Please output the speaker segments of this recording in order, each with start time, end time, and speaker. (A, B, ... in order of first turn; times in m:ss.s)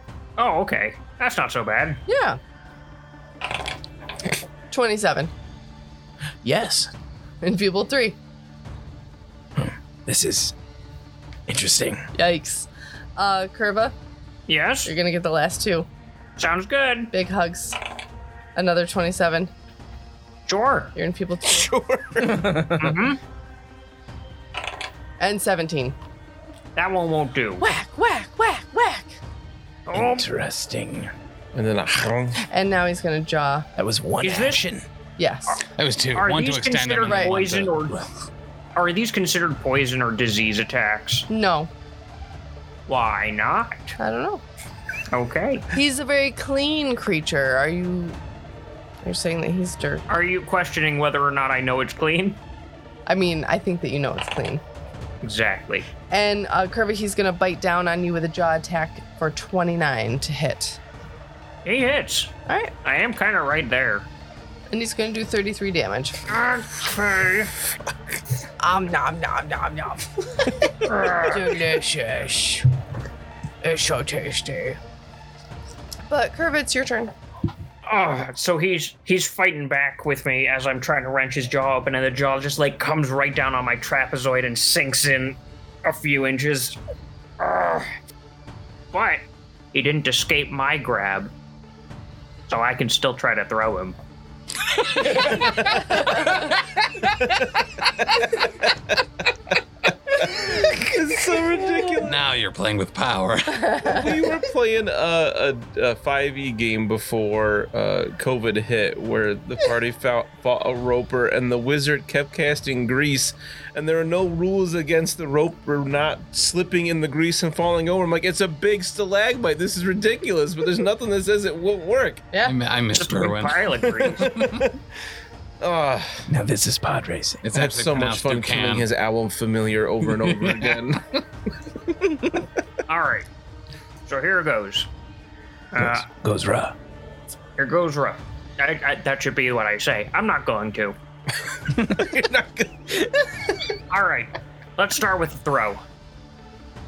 0:00.4-0:02.0 A
0:02.1-0:02.4 B
0:04.7-0:05.3 B
0:06.4-0:06.9 C
0:07.4-0:08.2 B
0:09.6-0:10.5 C
0:11.5-0:12.1 C
0:12.1-0:13.9 B
0:14.5-0:14.9 A
0:14.8-0:15.9 B
0:16.4-0:17.1 A
0:17.1-0:17.8 B
0:18.5-0:19.5 B
0:20.5-0:20.9 A
0:20.9-0:21.7 B
0:21.4-0:22.7 D
0:22.7-0:23.2 A
0:25.2-0:26.0 B
0:26.8-0:27.6 A
0:27.6-0:29.2 B
0:29.9-0:30.3 A
0:29.9-0:31.1 C
0:31.5-0:32.4 D
0:32.4-0:33.6 B
0:33.8-0:34.8 C
0:34.2-0:34.6 A
0:35.2-0:35.6 B
0:35.8-0:37.8 E
0:36.1-0:38.0 A
0:37.0-0:37.3 B
0:38.7-0:41.2 A
0:41.3-0:41.7 B
0:42.9-0:44.0 A
0:44.0-0:44.4 B
0:45.1-0:45.7 A
0:45.7-0:48.2 B
0:49.0-0:50.1 B
0:50.1-0:52.4 A
0:53.1-0:54.6 B
0:55.2-0:55.8 A
0:56.1-1:00.8 B
1:01.6-1:04.1 A
1:02.5-1:02.7 B
1:04.7-1:06.2 B
1:06.3-1:07.5 A
1:08.6-1:12.6 B
1:10.8-1:11.6 A
1:11.8-1:12.6 C
1:13.6-1:14.8 B
1:16.1-1:17.1 B
1:17.8-1:26.8 A
1:27.4-1:27.9 A
1:28.9-1:29.2 A
1:29.7-1:31.3 A
1:32.5-1:34.0 A
1:40.2-1:42.2 D
1:42.0-1:44.0 E
1:43.5-1:44.1 B
1:43.8-2:02.2 D
2:02.4-2:04.6 E
2:02.9-2:04.3 A
2:04.0-2:04.7 D
2:05.6-2:06.2 D
2:06.3-2:07.4 C
2:07.4-2:08.9 E
2:07.5-2:11.1 D
2:10.2-2:10.8 E
2:12.9-2:13.2 A
2:14.0-2:14.9 A
2:15.7-2:16.0 A
2:15.7-2:16.7 C
2:17.6-2:21.0 A
2:21.5-2:23.6 D
2:23.9-2:25.8 A